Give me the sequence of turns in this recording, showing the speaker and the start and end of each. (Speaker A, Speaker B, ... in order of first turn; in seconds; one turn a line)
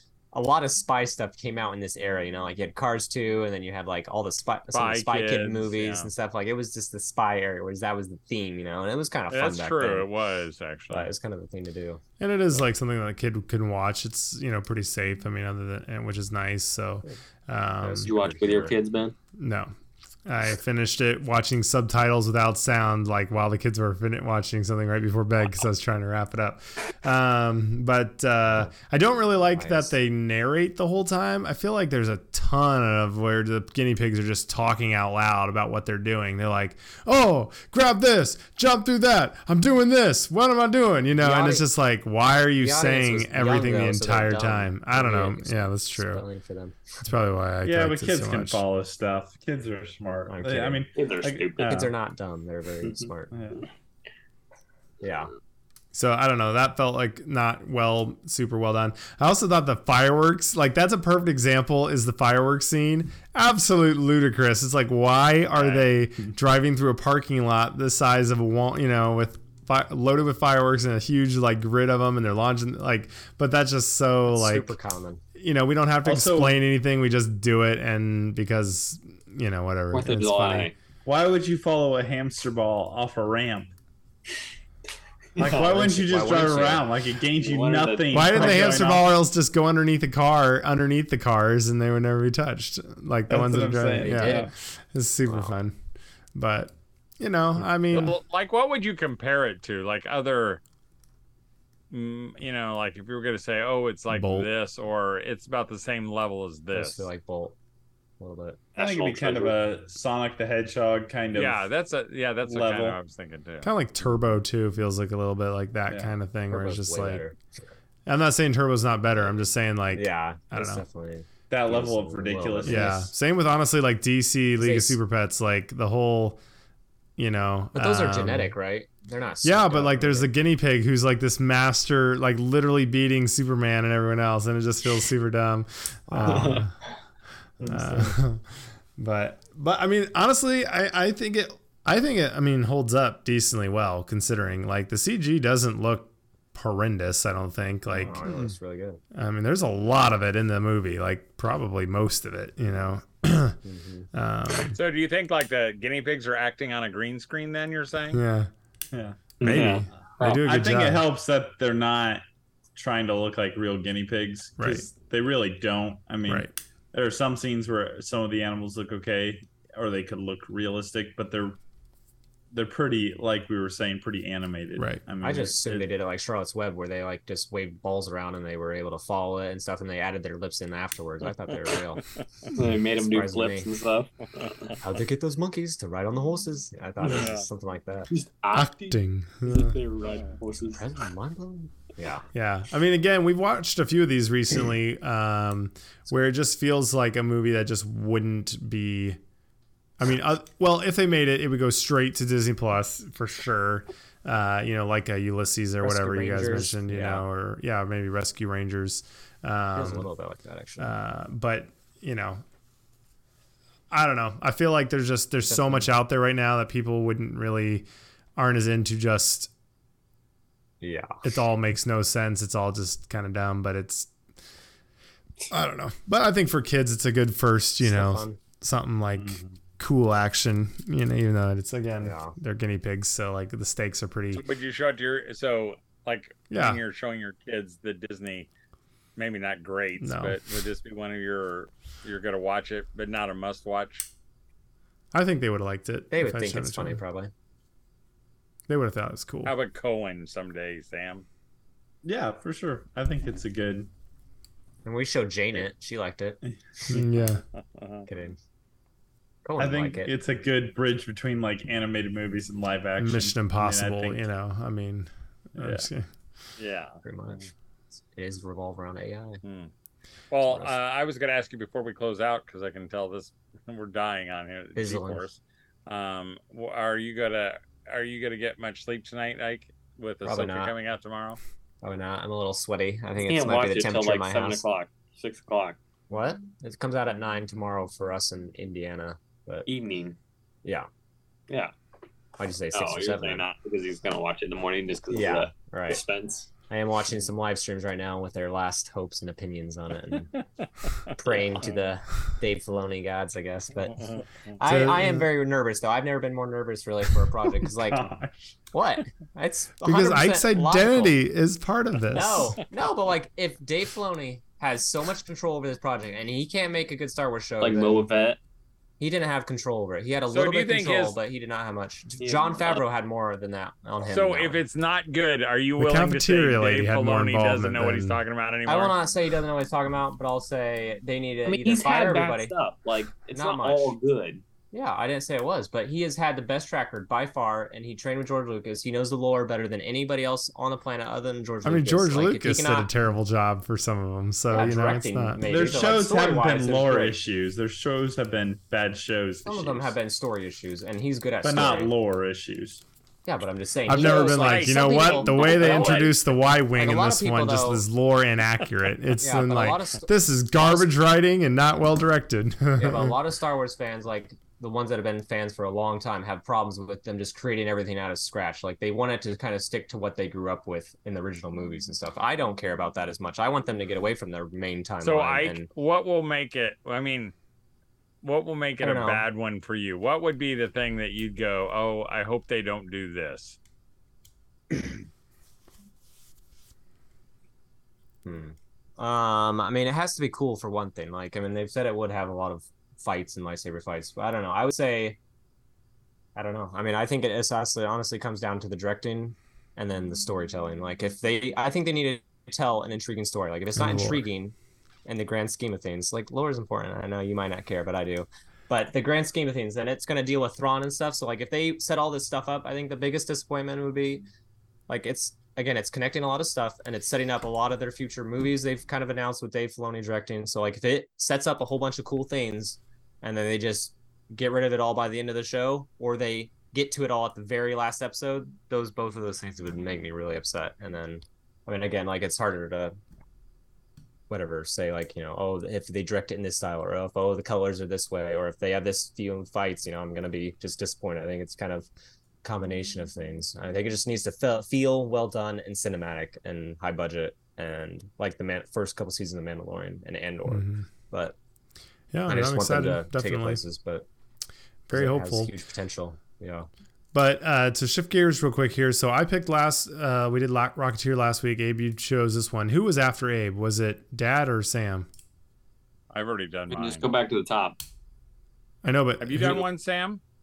Speaker A: 0.3-10.1
Speaker B: 4.7-6.1
Speaker B: 9.3-11.1
Speaker A: 10.9-12.0
Speaker C: 12.2-18.1
Speaker A: 17.8-18.8
Speaker D: 18.0-19.2
Speaker C: 19.4-19.7
Speaker C: 20.3-46.2
Speaker A: 29.5-29.9
Speaker A: 41.2-41.7
Speaker A: 42.6-46.8
Speaker C: 47.0-48.6
Speaker E: 47.6-51.9
Speaker A: 50.3-50.9
Speaker D: 51.0-51.9
Speaker A: 51.6-53.3
Speaker E: 53.3-53.7
Speaker A: 55.0-55.3
Speaker C: 55.9-74.7
Speaker B: 65.6-65.9
Speaker A: 74.3-75.2
Speaker C: 75.4-80.7
Speaker E: 76.0-76.6
Speaker D: 79.9-80.7
Speaker E: 81.1-83.7
Speaker D: 85.4-85.7
Speaker E: 85.4-89.1
Speaker A: 85.4-86.9
Speaker D: 87.3-88.7
Speaker C: 88.1-95.8
Speaker E: 93.3-94.5
Speaker A: 94.0-94.5
Speaker A: 95.3-95.5
Speaker C: 96.3-98.2
Speaker B: 97.9-100.6
Speaker B: 101.9-107.1
Speaker C: 104.1-104.5
Speaker A: 106.7-107.6
Speaker A: 108.2-108.6
Speaker D: 108.8-109.5
Speaker E: 108.8-111.7
Speaker B: 111.3-113.7
Speaker E: 112.5-113.0
Speaker C: 113.6-117.2
Speaker E: 115.9-116.1
Speaker A: 116.5-117.7
Speaker C: 118.1-120.8
Speaker A: 120.0-123.1
Speaker E: 121.5-123.0
Speaker C: 122.7-126.4
Speaker A: 124.6-125.0
Speaker C: 127.2-128.5
Speaker A: 127.7-130.3
Speaker C: 129.4-136.7
Speaker A: 136.1-136.7
Speaker D: 136.2-136.7
Speaker A: 137.6-138.2
Speaker C: 137.6-138.4
Speaker C: 139.0-148.5
Speaker A: 147.9-149.0
Speaker C: 149.1-153.6
Speaker A: 153.6-154.1
Speaker C: 154.1-154.8
Speaker B: 154.7-158.2
Speaker C: 158.1-158.5
Speaker E: 158.9-159.6
Speaker D: 159.4-160.4
Speaker C: 159.4-161.0
Speaker E: 160.2-162.2
Speaker E: 162.8-171.6
Speaker C: 164.6-164.8
Speaker C: 166.3-166.5
Speaker E: 172.5-175.9
Speaker C: 174.8-175.0
Speaker A: 175.2-182.0
Speaker D: 182.5-184.8
Speaker A: 183.0-183.7
Speaker A: 184.8-188.1
Speaker B: 187.0-187.5
Speaker D: 188.1-190.9
Speaker C: 188.5-189.8
Speaker B: 190.1-190.4
Speaker A: 190.8-192.3
Speaker C: 192.3-199.2
Speaker C: 200.0-210.1
Speaker A: 205.8-207.2
Speaker A: 209.8-210.9
Speaker C: 210.8-212.4
Speaker C: 213.9-219.5
Speaker A: 215.5-215.9
Speaker A: 220.8-221.2
Speaker C: 221.2-224.1
Speaker C: 225.5-234.4
Speaker A: 227.8-228.4
Speaker E: 229.2-229.5
Speaker A: 232.0-232.3
Speaker B: 234.3-238.5
Speaker C: 236.5-236.8
Speaker B: 239.2-244.1
Speaker C: 240.0-240.4
Speaker C: 245.1-247.0
Speaker A: 246.1-247.3
Speaker C: 248.7-249.5
Speaker B: 249.4-251.3
Speaker E: 252.0-253.9
Speaker A: 254.8-256.4
Speaker E: 256.4-257.2
Speaker C: 256.9-257.4
Speaker B: 257.5-258.1
Speaker A: 258.1-258.4
Speaker A: 259.4-260.1
Speaker E: 259.6-264.2
Speaker C: 263.0-266.1
Speaker E: 265.6-265.9
Speaker B: 266.6-267.5
Speaker A: 267.0-267.5
Speaker A: 268.1-269.4
Speaker B: 269.4-269.7
Speaker B: 270.3-281.4
Speaker A: 270.5-270.7
Speaker A: 274.8-275.2
Speaker A: 280.2-280.7
Speaker A: 281.8-284.6
Speaker D: 283.2-285.8
Speaker A: 286.1-289.7
Speaker D: 289.7-290.2
Speaker A: 292.4-293.5
Speaker D: 292.7-296.5
Speaker A: 295.1-296.0
Speaker A: 296.7-300.3
Speaker A: 301.1-304.0
Speaker B: 303.8-304.6
Speaker A: 304.6-308.1
Speaker C: 304.6-305.3
Speaker E: 307.7-308.6
Speaker A: 308.7-311.2
Speaker C: 309.8-312.6
Speaker A: 312.1-318.1
Speaker D: 317.6-318.4
Speaker A: 319.0-324.6
Speaker B: 320.3-321.2
Speaker D: 322.2-322.8
Speaker B: 324.0-328.9
Speaker C: 325.8-328.2
Speaker A: 328.7-332.5
Speaker D: 331.5-334.4
Speaker A: 333.3-333.9
Speaker A: 334.7-342.9
Speaker C: 341.6-345.4
Speaker A: 344.5-347.2
Speaker E: 345.4-349.9
Speaker A: 349.4-351.9
Speaker E: 351.4-352.8
Speaker A: 353.3-356.1
Speaker C: 353.9-363.1
Speaker B: 353.9-355.6
Speaker D: 355.0-356.2
Speaker A: 356.8-357.8
Speaker A: 359.2-360.9
Speaker A: 362.8-375.7
Speaker B: 375.0-377.3
Speaker B: 378.2-383.6
Speaker A: 378.8-379.2
Speaker A: 388.2-395.2
Speaker A: 396.4-404.6
Speaker C: 403.8-404.2
Speaker A: 405.1-414.2
Speaker A: 414.9-432.9
Speaker A: 434.3-441.9
Speaker A: 442.4-451.4
Speaker C: 450.5-450.9
Speaker C: 452.1-453.6
Speaker A: 452.3-454.1
Speaker C: 454.9-455.5
Speaker A: 454.9-456.7
Speaker C: 457.1-465.1
Speaker B: 466.1-467.1
Speaker D: 466.7-467.8
Speaker C: 468.8-469.6
Speaker B: 469.2-470.2